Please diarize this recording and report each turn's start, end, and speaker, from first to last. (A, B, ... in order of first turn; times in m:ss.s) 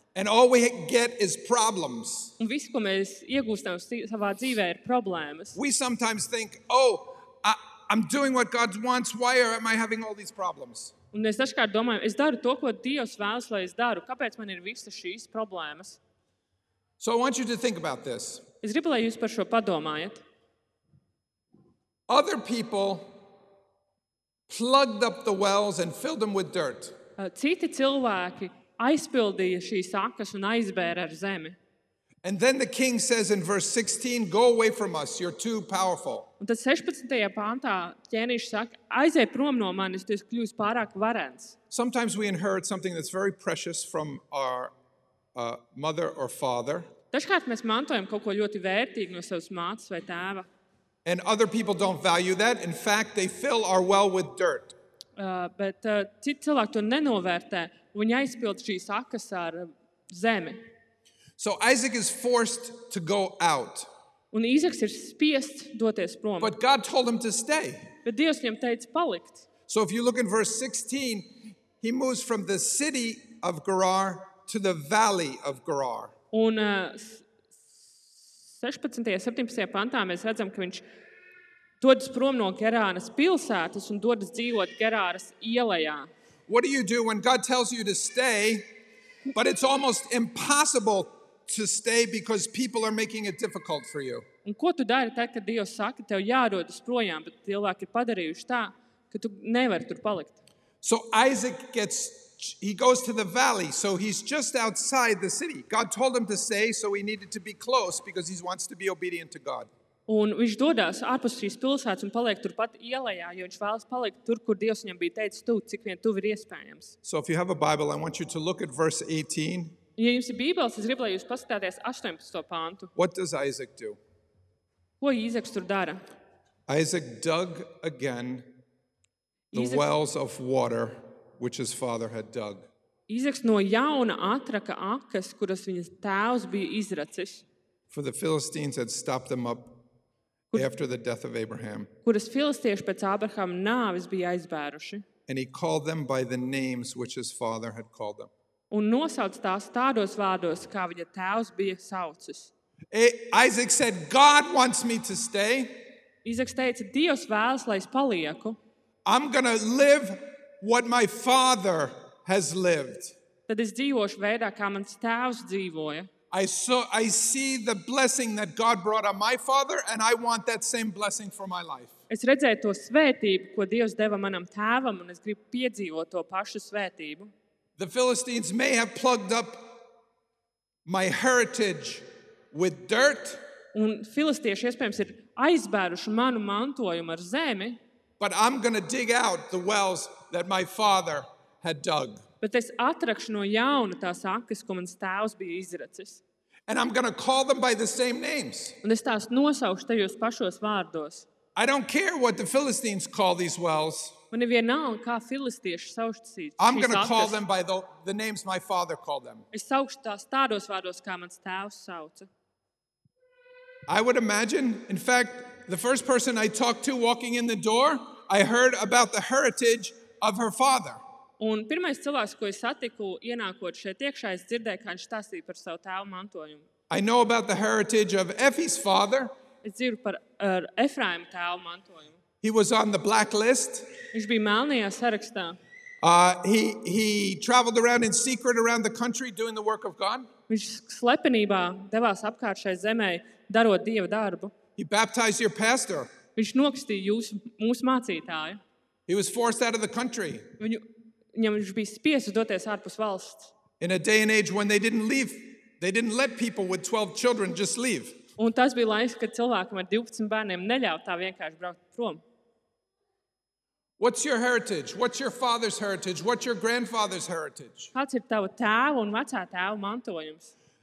0:00.1-0:02.3 A
0:02.4-0:05.6 B
0:05.5-0:10.9 A
0:11.1-0:16.0 B
0:17.0-0:18.4 A
0:18.6-0:20.2 B
0:22.1-0:23.2 A
0:24.5-0:27.0 A
0:27.2-0:31.6 B
0:32.2-0:36.3 A
0:36.4-0:41.6 B
0:41.7-0:44.7 A
0:45.3-0:46.9 A
0:47.1-0:50.5 B
0:51.0-0:54.7 A
0:55.2-1:00.6 B
1:01.4-1:03.9 A
1:04.3-1:06.5 B
1:06.4-1:07.9 A
1:08.0-1:09.4 B
1:09.7-1:16.1 A
1:16.3-1:17.3 B
1:18.5-1:20.8 B
1:21.8-1:26.1 B
1:26.5-1:28.7 A
1:29.3-1:34.2 A
1:34.4-1:40.4 B
1:40.8-1:49.7 A
1:50.1-1:56.9 B
1:57.0-1:59.8 A
2:00.0-2:02.9 B
2:02.9-2:04.0 A
2:05.0-2:06.0 B
2:06.7-2:08.6 A
2:09.5-2:09.9 B
2:09.5-2:12.7 A
2:13.1-2:17.4 B
2:17.9-2:19.8 A
2:20.5-2:21.9 A
2:22.0-2:25.0 B
2:25.3-2:28.3 A
2:28.7-2:32.5 B
2:32.9-2:35.8 A
2:36.2-2:38.6 B
2:39.0-2:43.2 A
2:43.5-2:46.1 B
2:46.3-2:51.9 A
2:52.1-2:57.3 B
2:57.8-2:59.8 A
3:00.8-3:03.4 A
3:03.7-3:07.8 B
3:08.2-3:12.2 A
3:12.4-3:16.2 B
3:16.7-3:18.8 A
3:18.8-3:21.2 B
3:21.6-3:24.2 A
3:24.3-3:27.4 B
3:26.6-3:29.4 A
3:29.5-3:32.3 B
3:33.9-3:41.0 A
3:41.4-3:46.6 B
3:46.9-3:49.3 A
3:49.6-3:52.2 B
3:52.4-3:53.9 A
3:54.1-3:55.6 B
3:56.0-4:00.3 A
4:00.5-4:04.5 B
4:04.8-4:06.1 A
4:06.4-4:08.6 B
4:09.1-4:10.5 A
4:10.6-4:13.5 B
4:13.8-4:18.2 A
4:18.4-4:22.2 B
4:24.0-4:27.9 A
4:27.9-4:30.5 B